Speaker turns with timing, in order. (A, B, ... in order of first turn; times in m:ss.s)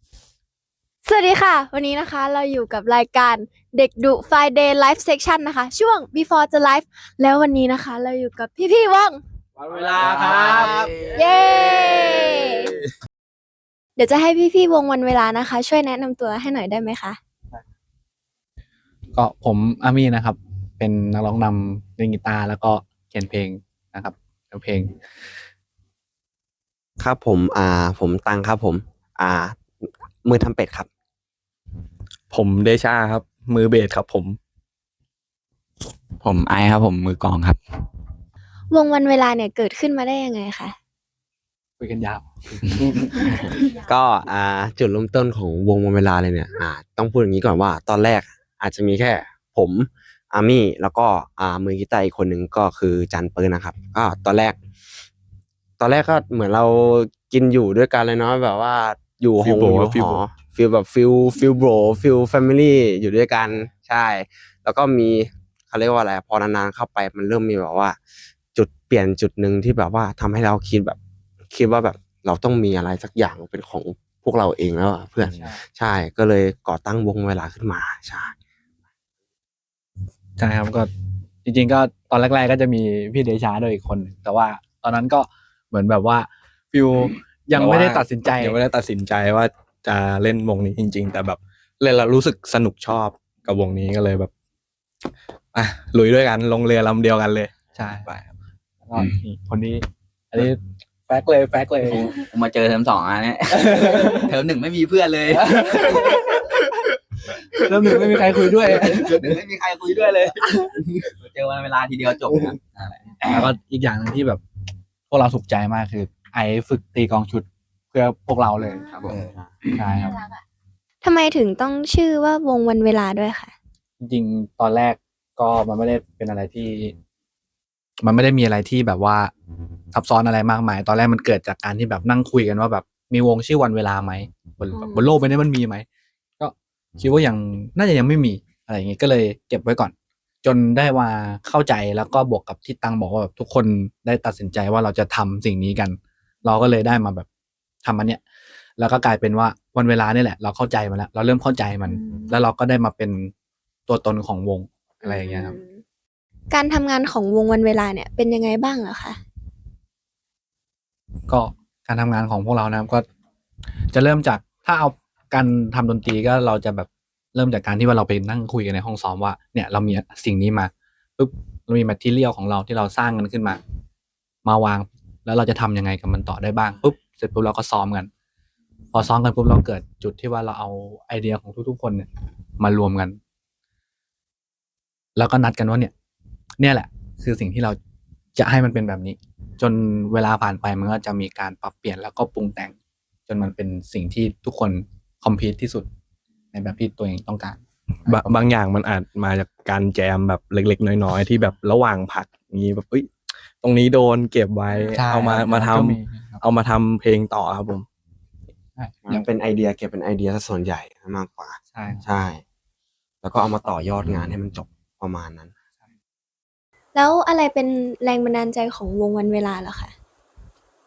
0:01.0-0:09.2 A
0:09.6-0:10.9 B
0:10.0-0:11.2 C
0:11.1-0:12.8 A
0:14.0-0:17.2 A
0:19.1-0:25.0 B
0:27.0-0:30.9 D
0:32.3-0:34.4 E
0:32.6-0:33.5 C
0:36.2-0:37.6 C
0:38.7-0:40.8 A
0:41.8-0:43.6 B
0:43.2-0:54.6 D
0:55.8-1:08.0 D
0:59.4-1:00.2 C
0:59.6-1:00.0 E
1:08.5-1:11.0 D
1:11.5-1:18.3 D
1:15.3-1:15.6 B
1:20.4-1:20.9 B
1:21.4-1:28.6 B
1:27.5-1:29.5 C
1:28.6-1:34.3 E
1:30.2-1:31.4 C
1:33.0-1:33.5 C
1:35.5-1:36.0 C
1:36.0-1:37.2 E
1:37.2-1:37.5 C
1:37.7-1:38.1 B
1:38.8-1:42.1 B
1:41.8-1:46.3 C
1:43.6-1:44.3 B
1:45.3-1:46.6 B
1:47.5-1:49.3 B
1:48.6-1:53.5 C
1:53.2-1:54.4 B
1:55.1-1:59.1 B
1:58.6-1:59.2 A
1:58.8-2:00.0 C
1:59.7-2:00.2 B
1:59.9-2:00.4 A
2:01.0-2:03.5 A
2:04.0-2:06.9 B
2:08.0-2:09.3 B
2:09.9-2:15.8 B
2:14.7-2:15.1 A
2:16.4-2:27.3 B
2:27.8-2:28.2 B
2:28.8-2:33.3 B
2:31.9-2:32.4 A
2:33.9-2:35.6 B
2:35.0-2:35.8 A
2:36.5-2:39.2 A
2:41.3-2:43.0 B
2:43.9-2:53.6 B
2:54.4-2:58.1 B
2:58.9-3:02.1 B
3:02.6-3:03.2 B
3:05.2-3:05.9 B
3:06.6-3:07.8 B
3:08.4-3:12.7 B
3:13.3-3:15.9 B
3:16.5-3:18.3 B
3:18.1-3:18.4 C
3:18.4-3:23.0 E
3:21.2-3:21.6 C
3:23.6-3:25.3 E
3:24.7-3:26.4 C
3:24.9-3:26.4 B
3:26.4-3:27.6 E
3:28.8-3:29.2 B
3:29.0-3:32.4 D
3:31.7-3:32.1 B
3:33.2-3:35.5 D
3:36.9-3:39.9 A